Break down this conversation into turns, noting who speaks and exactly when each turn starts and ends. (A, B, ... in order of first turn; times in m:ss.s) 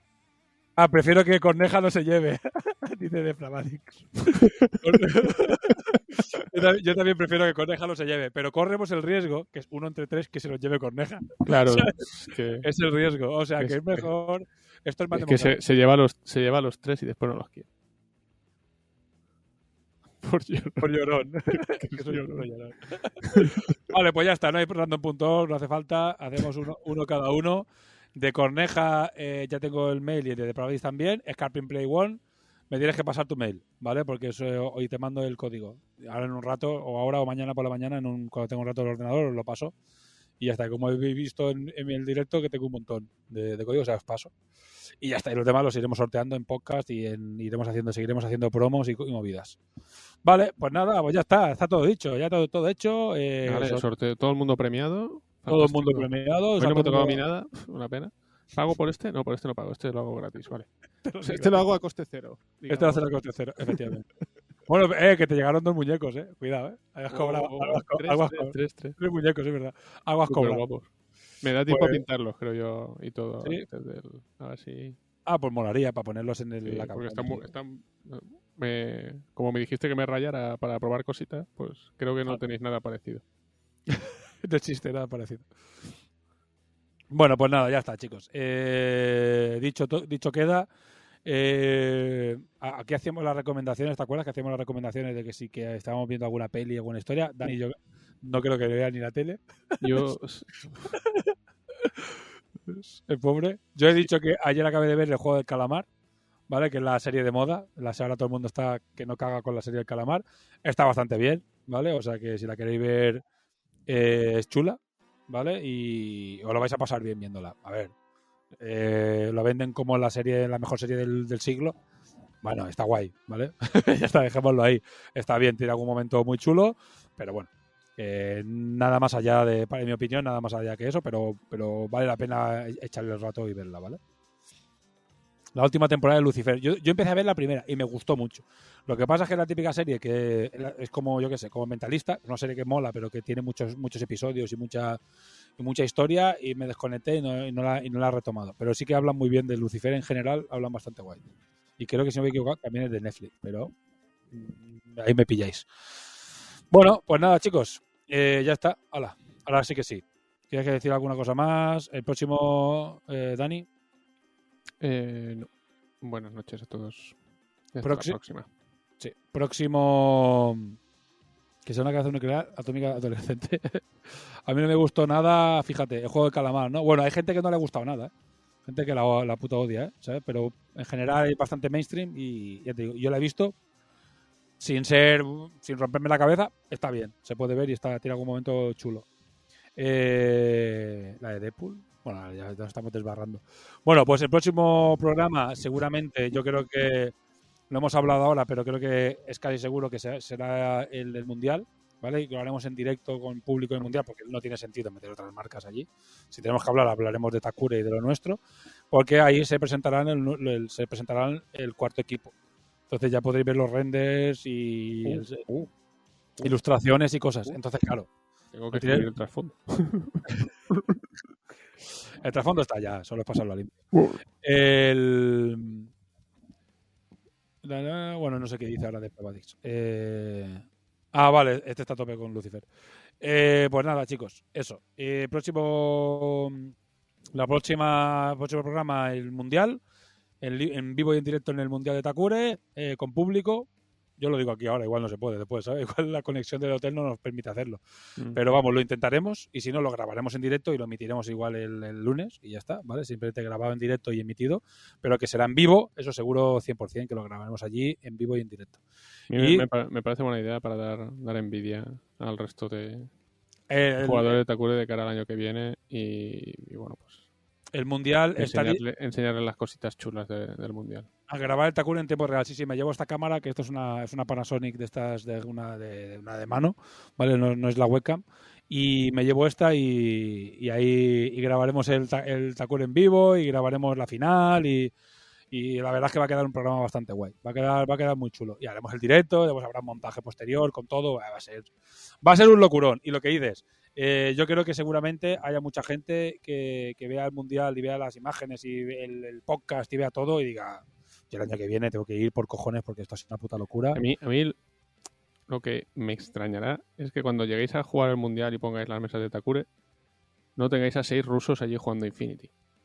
0:00.8-0:15.6 A
0:04.5-0:05.7 B
0:11.4-0:12.6 B
0:13.6-0:14.1 B
0:15.1-0:17.7 B
0:20.2-0:21.0 B
0:20.8-0:39.7 A
0:21.5-0:22.4 B
0:23.2-0:23.6 B
0:40.4-0:44.3 A
0:45.0-0:49.6 A
0:50.2-0:53.8 A
0:53.5-1:00.7 B
0:55.5-0:57.2 A
1:01.0-1:01.6 A
1:01.2-1:03.1 B
1:02.7-1:04.0 A
1:03.6-1:03.9 B
1:04.7-1:10.6 A
1:07.1-1:09.0 B
1:10.3-1:15.0 B
1:11.7-1:12.0 A
1:15.2-1:17.5 A
1:16.6-1:23.2 B
1:23.9-1:25.5 A
1:27.1-1:30.7 A
1:31.2-1:40.1 A
1:39.8-1:40.8 B
1:40.9-1:42.2 A
1:42.7-1:45.8 A
1:46.5-1:53.2 A
1:53.9-1:57.9 A
1:58.6-2:01.8 A
2:02.4-2:14.0 A
2:15.6-2:25.0 A
2:25.6-2:31.2 A
2:31.8-2:33.7 A
2:34.3-2:35.6 A
2:36.7-2:43.7 A
2:44.8-2:45.5 B
2:46.0-2:47.1 B
2:47.7-2:48.5 B
2:47.8-2:48.2 A
2:49.0-2:50.8 A
2:51.6-2:53.9 A
2:54.5-2:58.1 A
2:58.6-3:03.5 A
3:04.6-3:09.0 A
3:09.8-3:17.1 A
3:17.7-3:28.4 A
3:28.9-3:32.3 A
3:32.9-3:35.4 A
3:35.0-3:35.7 B
3:36.4-3:38.1 A
3:38.5-3:41.0 B
3:38.7-3:39.1 A
3:42.2-3:43.8 A
3:43.9-3:44.2 B
3:44.4-3:45.9 A
3:47.6-3:52.6 A
3:53.2-3:56.7 A
3:57.3-3:59.8 A
4:00.4-4:07.8 A
4:08.3-4:18.8 A
4:19.3-4:23.1 B
4:19.3-4:19.6 A
4:23.7-4:24.4 A
4:24.0-4:27.2 B
4:27.7-4:28.8 A
4:28.4-4:31.1 B
4:31.3-4:44.9 A
4:45.5-4:51.7 A
4:52.2-5:04.0 A
5:03.9-5:04.6 B
5:05.5-5:09.7 B
5:10.6-5:12.5 B